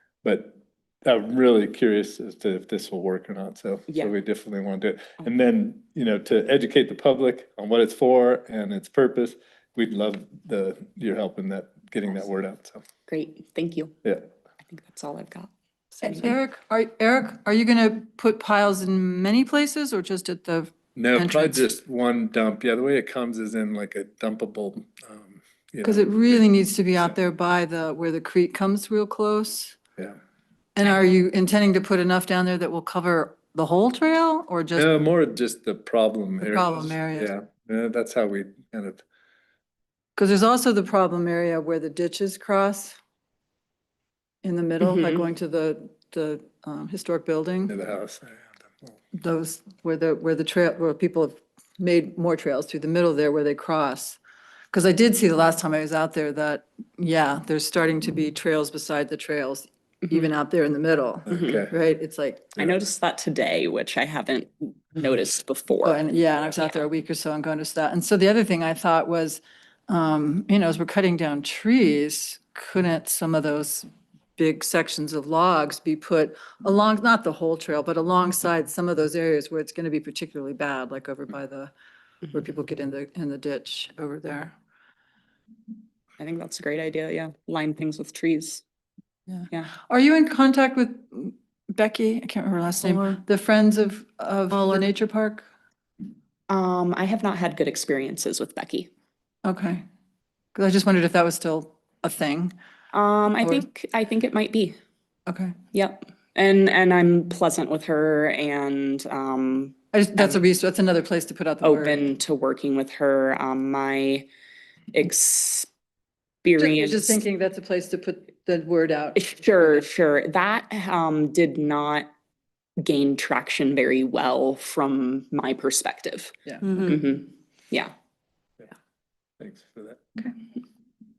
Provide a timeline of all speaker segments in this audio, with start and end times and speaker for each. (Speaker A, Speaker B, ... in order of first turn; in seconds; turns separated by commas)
Speaker A: 0.2-12.8, Speaker B: 13.1-13.9, Speaker B: 14.7-16.4, Speaker C: 16.0-21.6, Speaker A: 20.9-27.1, Speaker C: 25.8-29.8, Speaker C: 30.8-34.9, Speaker A: 34.7-39.0, Speaker C: 36.4-37.3, Speaker C: 40.2-43.0, Speaker C: 44.4-47.7, Speaker B: 44.8-45.2, Speaker A: 47.7-48.9, Speaker C: 49.1-54.2, Speaker C: 54.7-62.5, Speaker A: 61.3-61.7, Speaker B: 61.3-61.6, Speaker B: 62.6-66.0, Speaker C: 65.8-81.7, Speaker C: 82.3-84.5, Speaker B: 86.2-88.6, Speaker C: 89.3-95.5, Speaker B: 96.5-98.9, Speaker C: 99.4-99.8, Speaker C: 100.5-102.5, Speaker B: 102.9-104.8, Speaker C: 105.3-105.5, Speaker B: 105.7-110.4, Speaker C: 109.9-112.0, Speaker B: 111.6-114.2, Speaker B: 114.9-115.7, Speaker B: 116.4-117.2, Speaker C: 116.6-119.8, Speaker B: 119.2-122.1, Speaker B: 122.8-127.9, Speaker C: 126.5-126.7, Speaker A: 129.4-130.0